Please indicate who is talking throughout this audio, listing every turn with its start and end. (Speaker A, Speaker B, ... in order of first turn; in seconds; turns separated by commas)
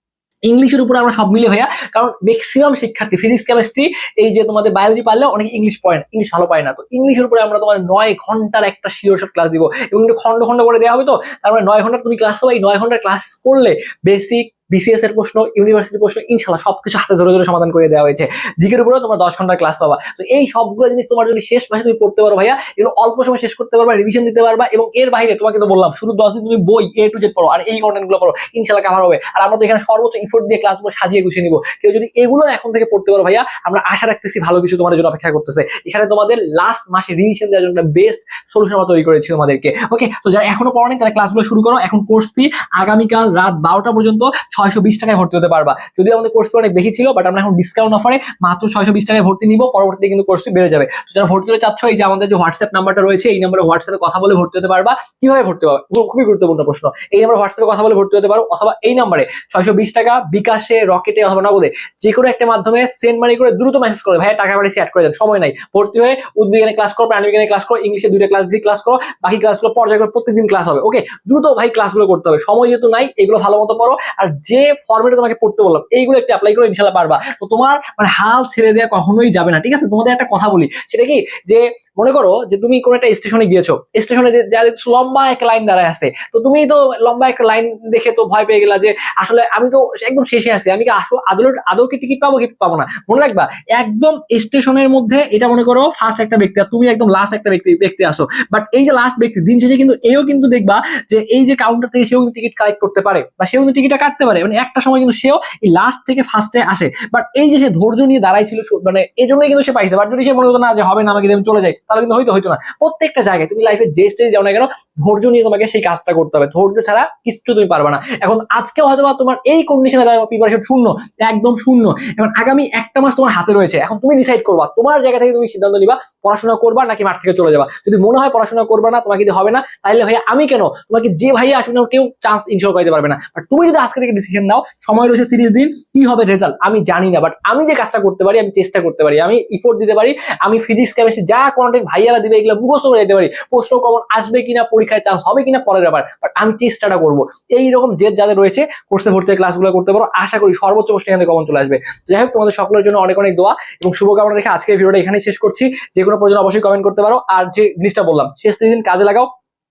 Speaker A: 0.5-159.3